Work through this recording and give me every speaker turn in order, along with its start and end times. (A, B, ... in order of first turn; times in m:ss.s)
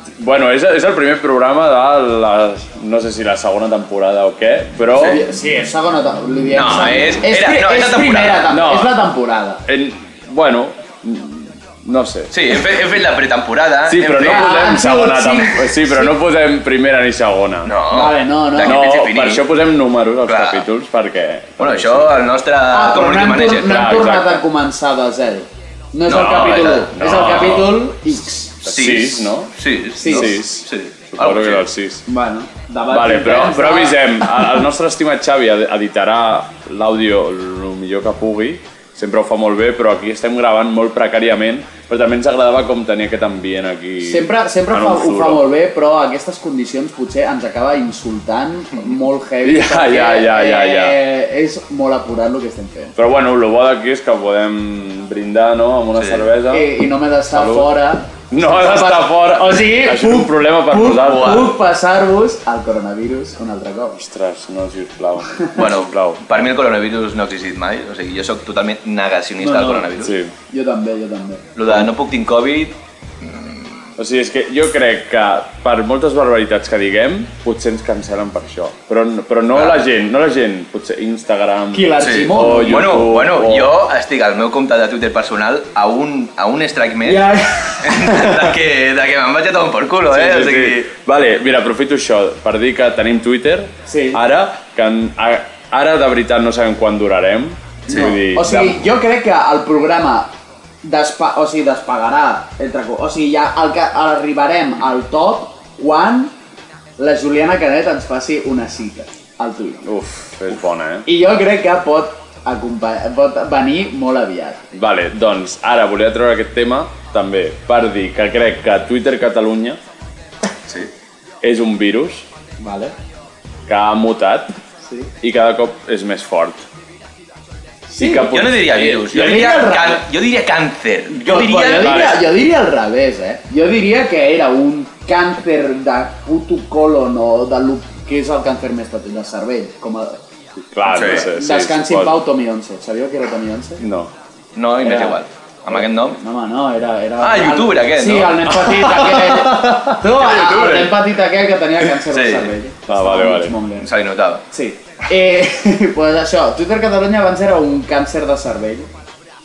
0:00.1-0:05.2 A
0:05.0-0:09.6 B
0:06.5-0:08.5 C
0:08.5-0:09.0 A
0:09.6-0:12.8 A
0:12.3-0:14.5 C
0:13.9-0:17.7 A
0:14.2-0:16.1 B
0:17.6-0:19.4 C
0:17.9-0:18.8 B
0:18.6-0:22.1 A
0:20.3-0:20.6 C
0:21.6-0:24.1 C
0:22.7-0:28.7 B
0:23.6-0:24.4 A
0:26.1-0:27.8 A
0:26.1-0:26.9 C
0:28.6-0:29.5 A
0:28.7-0:31.6 C
0:30.0-0:30.3 B
0:30.0-0:32.0 A
0:32.1-0:34.4 B
0:32.9-0:45.5 A
0:44.0-0:52.9 B
0:49.4-0:51.0 A
0:53.0-0:56.7 A
0:56.0-0:56.3 C
0:56.5-1:04.0 B
0:57.3-0:57.7 A
0:58.3-1:01.6 A
1:01.0-1:01.5 C
1:03.9-1:06.4 A
1:05.4-1:05.6 B
1:05.6-1:10.1 C
1:09.4-1:09.8 B
1:10.0-1:10.3 A
1:10.5-1:11.5 B
1:11.6-1:13.7 C
1:14.0-1:23.7 A
1:19.5-1:19.8 C
1:21.7-1:23.1 B
1:22.0-1:30.9 C
1:27.0-1:28.3 B
1:30.1-1:38.8 A
1:33.9-1:34.2 B
1:37.9-1:40.3 B
1:40.8-1:46.3 B
1:47.0-1:49.8 B
1:49.8-1:51.1 A
1:51.0-1:54.6 B
1:54.7-1:59.8 A
2:01.4-2:02.2 A
2:02.6-2:02.9 B
2:03.7-2:04.5 A
2:04.8-2:05.1 B
2:05.2-2:06.6 A
2:07.9-2:08.3 B
2:08.0-2:09.3 A
2:08.2-2:12.2 C
2:09.1-2:10.0 B
2:11.1-2:20.2 B
2:11.8-2:12.3 A
2:20.6-2:22.2 A
2:20.9-2:21.2 C
2:20.9-2:23.8 B
2:23.8-2:24.1 A
2:24.6-2:26.2 C
2:24.8-2:25.2 B
2:25.7-2:33.9 B
2:27.2-2:28.5 C
2:28.6-2:31.0 A
2:32.1-2:32.5 C
2:32.9-2:33.5 A
2:33.8-2:34.4 C
2:34.5-2:38.9 B